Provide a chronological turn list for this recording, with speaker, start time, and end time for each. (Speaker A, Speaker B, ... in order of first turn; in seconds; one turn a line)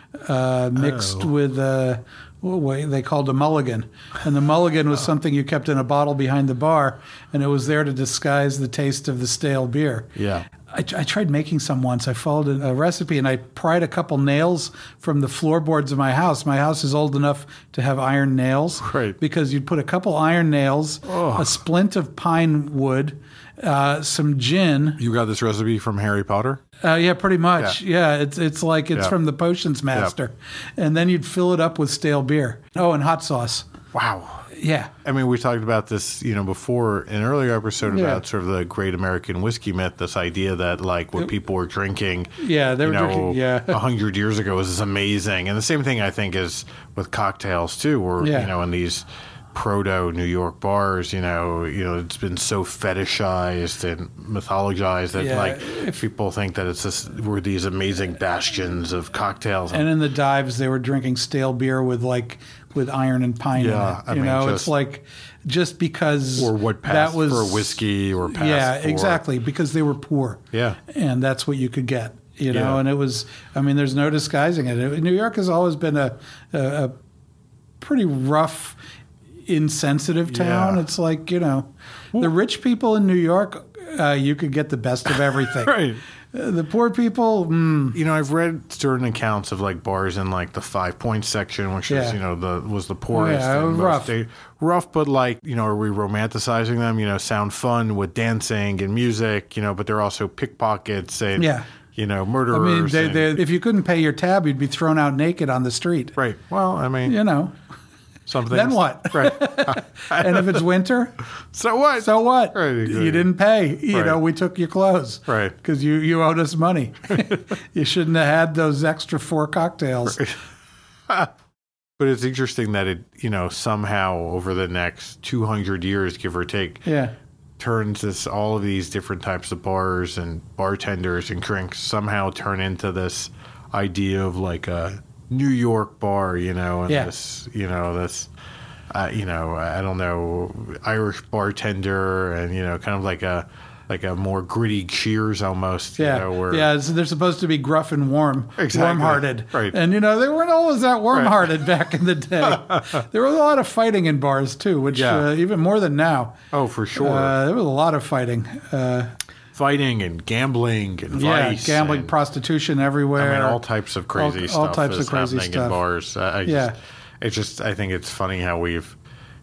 Speaker A: 0.2-25.0
Speaker B: 0.8-1.3
Speaker B: 10.2-10.5
Speaker B: 18.8-19.1
Speaker B: 21.0-21.6
Speaker B: 25.0-26.6
Speaker A: 26.8-33.7
Speaker B: 33.9-34.5
Speaker A: 34.5-34.9
Speaker B: 35.0-59.9
Speaker A: 37.9-38.2
Speaker A: 42.4-43.8
Speaker A: 48.2-48.5
Speaker A: 55.1-56.0
Speaker A: 59.7-67.8
Speaker B: 63.5-64.7
Speaker B: 66.4-69.2
Speaker A: 68.3-76.9
Speaker B: 70.5-70.8
Speaker B: 72.5-72.8
Speaker A: 77.8-78.8
Speaker A: 79.5-88.0
Speaker B: 80.3-80.8
Speaker B: 85.1-86.0
Speaker B: 87.9-103.4
Speaker A: 91.9-92.2
Speaker A: 93.1-94.1
Speaker A: 101.3-101.7
Speaker A: 102.5-106.2
Speaker B: 106.2-107.2
Speaker A: 107.0-107.5
Speaker B: 108.2-110.6
Speaker A: 108.5-111.2
Speaker B: 111.5-113.3
Speaker A: 112.0-120.2
Speaker B: 113.9-114.2
Speaker B: 115.3-115.5
Speaker B: 120.1-120.4
Speaker B: 122.0-126.9
Speaker A: 126.8-127.1
Speaker B: 127.6-138.3
Speaker B: 138.9-146.7
Speaker A: 146.0-156.4
Speaker B: 148.6-149.8
Speaker B: 151.1-151.5
Speaker B: 152.4-153.0
Speaker B: 154.9-155.3
Speaker B: 156.5-157.3
Speaker A: 156.9-159.1
Speaker B: 159.5-162.1
Speaker A: 161.1-163.6
Speaker B: 163.2-169.0
Speaker A: 164.1-165.8
Speaker A: 166.4-166.7